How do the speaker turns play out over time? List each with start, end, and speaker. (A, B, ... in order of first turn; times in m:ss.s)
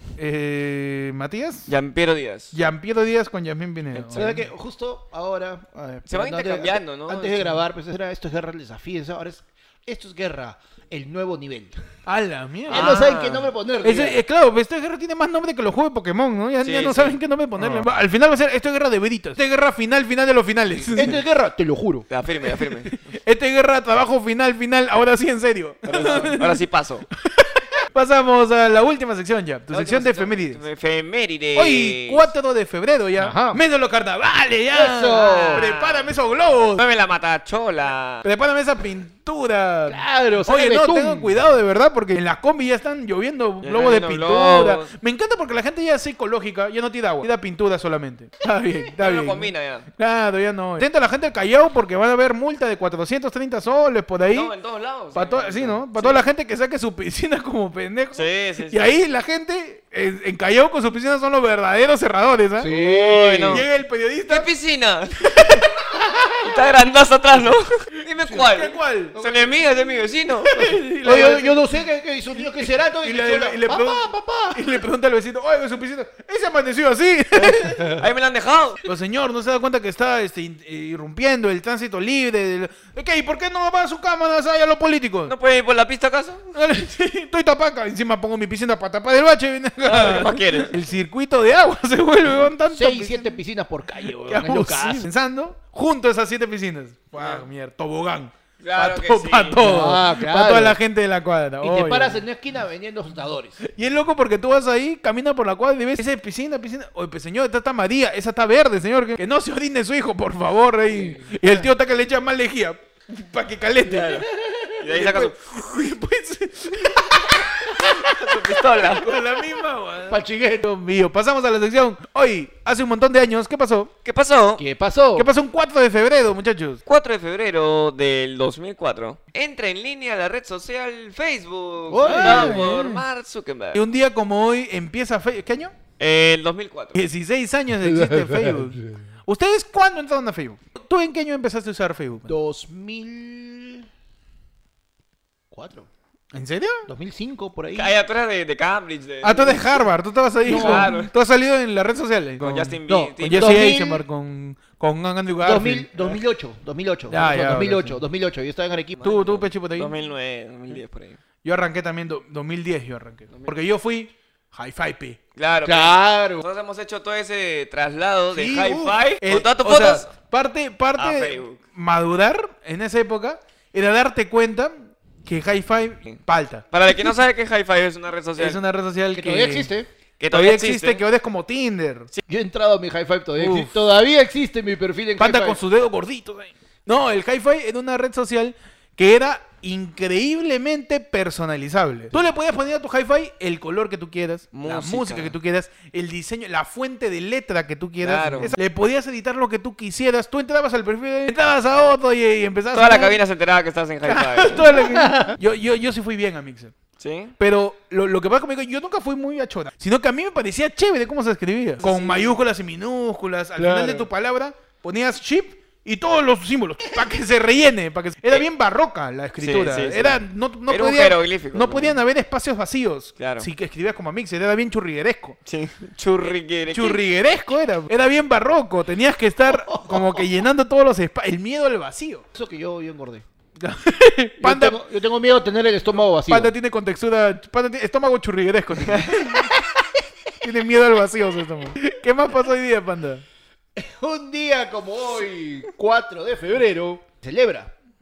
0:00.2-0:01.7 A
0:01.7-0:02.5 B
0:02.5-0:04.5 A
0:03.9-0:04.4 B
0:04.1-0:11.8 C
0:06.1-0:07.6 B
0:12.1-0:13.0 A
0:12.7-0:13.5 B
0:12.7-0:14.2 C
0:13.8-0:21.2 A
0:16.6-0:17.2 B
0:20.9-0:22.1 C
0:22.1-0:23.2 B
0:22.5-0:26.6 A
0:25.8-0:27.1 B
0:27.2-0:30.6 A
0:29.7-0:32.3 B
0:31.6-0:36.8 A
0:33.2-0:33.6 C
0:34.7-0:35.7 C
0:35.2-0:36.1 B
0:36.8-0:38.3 B
0:38.2-0:54.5 A
0:39.9-0:41.4 C
0:43.6-0:44.9 B
0:49.0-0:49.9 B
0:54.3-0:56.2 B
0:55.1-1:02.7 A
0:58.2-0:59.0 B
1:02.6-1:03.6 C
1:02.6-1:03.6 B
1:03.5-1:04.5 A
1:04.3-1:10.6 B
1:05.4-1:05.6 A
1:08.4-1:09.2 A
1:09.1-1:09.6 C
1:10.5-1:11.7 A
1:10.6-1:14.7 C
1:12.4-1:18.0 A
1:17.4-1:18.8 B
1:18.8-1:25.3 A
1:25.3-1:26.6 B
1:26.5-1:33.4 A
1:29.8-1:30.8 B
1:32.7-1:35.1 C
1:34.0-1:42.2 A
1:37.2-1:37.4 B
1:38.6-1:39.6 B
1:39.6-1:40.8 C
1:41.6-1:43.6 C
1:43.6-1:54.3 A
1:51.0-1:51.7 C
1:53.9-1:54.3 B
1:54.4-1:55.1 C
1:54.8-1:55.4 B
1:54.9-2:03.9 A
1:57.8-1:59.1 B
2:00.1-2:00.7 C
2:04.0-2:04.6 B
2:04.6-2:05.3 C
2:05.2-2:06.8 A
2:06.9-2:13.8 B
2:11.9-2:13.0 C
2:12.0-2:13.0 A
2:13.7-2:15.7 A
2:16.0-2:17.0 B
2:16.9-2:22.4 A
2:17.8-2:19.0 C
2:22.3-2:23.9 C
2:25.5-2:25.9 C
2:26.3-2:26.9 A
2:26.9-2:28.0 C
2:27.8-2:29.9 B
2:29.2-2:35.9 A
2:30.4-2:31.0 C
2:30.5-2:31.1 B
2:32.4-2:33.7 B
2:32.9-2:34.0 C
2:35.4-2:39.1 C
2:37.1-2:38.0 A
2:39.0-2:41.2 B
2:39.0-2:39.9 A
2:41.4-2:45.2 A
2:45.4-2:50.1 B
2:45.6-2:46.4 C
2:48.3-2:57.1 A
2:51.0-2:51.6 B
2:56.7-2:58.6 B
2:58.4-2:59.7 A
2:59.1-2:59.9 C
3:00.2-3:01.0 B
3:00.3-3:02.1 A
3:02.3-3:05.6 C
3:03.4-3:03.8 A
3:05.2-3:23.2 A
3:14.5-3:15.3 B
3:18.0-3:18.6 B
3:22.7-3:24.7 B
3:24.0-3:26.8 A
3:24.9-3:25.4 C
3:27.0-3:27.4 B
3:27.4-3:45.4 A
3:31.8-3:32.4 B
3:33.6-3:34.1 C
3:39.4-3:42.0 B
3:43.2-3:43.5 B
3:45.5-3:47.0 B
3:46.7-3:52.2 A
3:49.6-3:50.2 C
3:52.4-3:53.2 C
3:53.6-3:54.8 A
3:54.4-3:56.5 C
3:56.3-3:59.6 A
4:00.4-4:03.2 A
4:03.8-4:07.7 C